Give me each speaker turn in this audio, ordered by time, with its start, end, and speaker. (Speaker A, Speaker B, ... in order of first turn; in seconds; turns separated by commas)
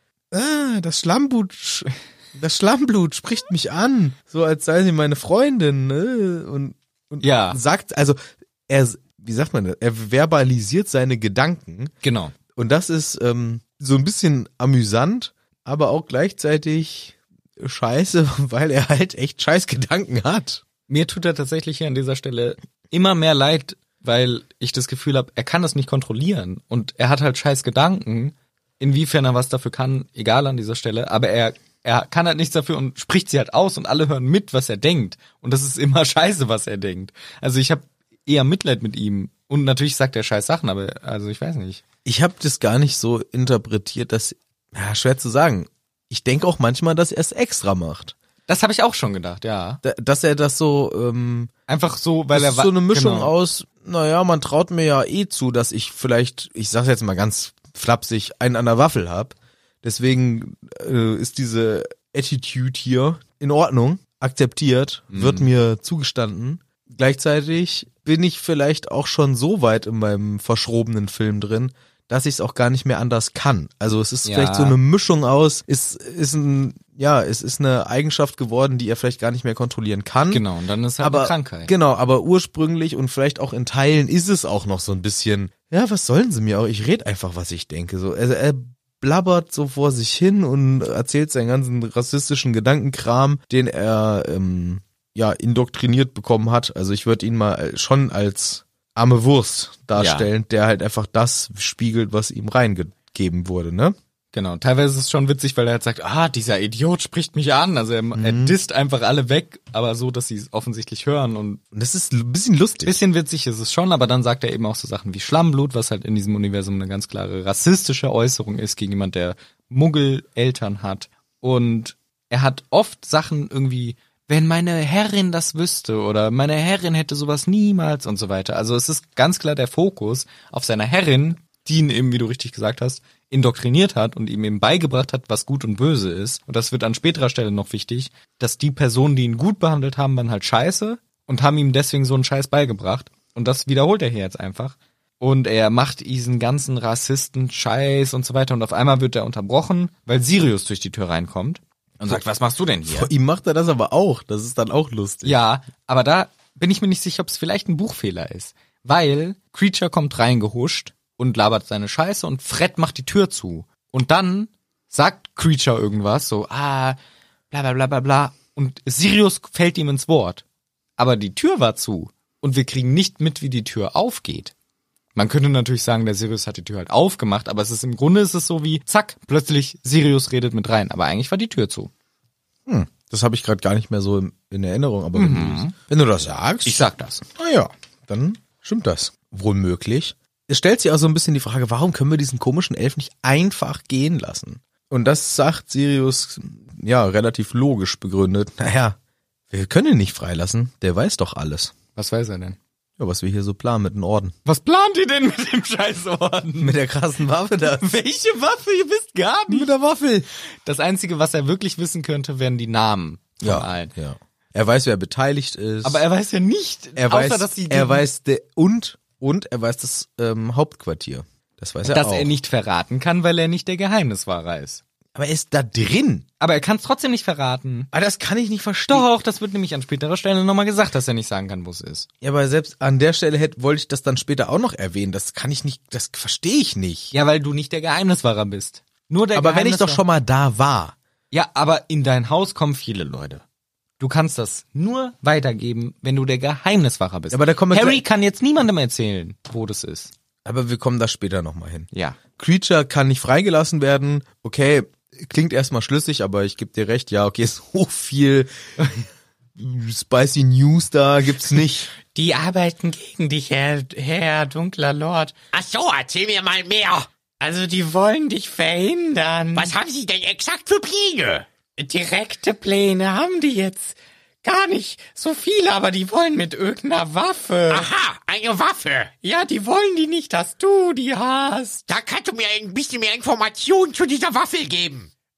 Speaker A: 0.3-8.2, Speaker B: 7.2-7.6, Speaker A: 8.7-11.9, Speaker B: 12.0-12.3, Speaker A: 12.5-20.6, Speaker B: 20.9-41.8, Speaker A: 42.0-48.1, Speaker B: 48.5-49.8, Speaker A: 49.8-51.5, Speaker B: 51.7-53.3, Speaker A: 52.3-80.4, Speaker B: 65.1-65.5, Speaker B: 74.2-74.8, Speaker B: 80.3-81.7, Speaker A: 81.0-103.9, Speaker B: 100.0-100.3, Speaker B: 104.3-111.6, Speaker A: 108.1-108.5, Speaker A: 111.7-113.0, Speaker B: 112.8-153.1, Speaker A: 152.9-155.4, Speaker B: 155.2-167.0, Speaker B: 167.5-170.4, Speaker B: 171.0-174.5, Speaker B: 175.1-181.9, Speaker A: 182.7-199.0, Speaker B: 185.1-185.7, Speaker B: 186.6-187.2, Speaker A: 199.5-201.7, Speaker B: 201.9-202.6, Speaker A: 203.0-204.3, Speaker B: 204.4-206.8, Speaker A: 206.6-208.0, Speaker B: 207.8-209.7, Speaker A: 209.5-210.3, Speaker B: 210.6-213.9, Speaker A: 213.4-216.0, Speaker B: 215.8-218.1, Speaker A: 217.0-222.3, Speaker B: 221.8-224.8, Speaker A: 225.1-226.2, Speaker B: 226.4-227.9, Speaker A: 227.9-229.1, Speaker B: 228.9-232.1, Speaker A: 232.2-237.1, Speaker B: 237.1-240.0, Speaker A: 239.3-240.9, Speaker B: 241.3-243.4, Speaker B: 244.0-250.1, Speaker A: 247.3-248.0, Speaker A: 250.4-259.0, Speaker B: 251.9-252.2, Speaker A: 259.6-261.9, Speaker B: 262.1-265.3, Speaker C: 265.5-267.1, Speaker B: 267.4-269.7, Speaker C: 269.5-271.4, Speaker B: 271.8-277.9, Speaker C: 277.7-279.1, Speaker B: 279.2-281.9, Speaker C: 281.9-285.1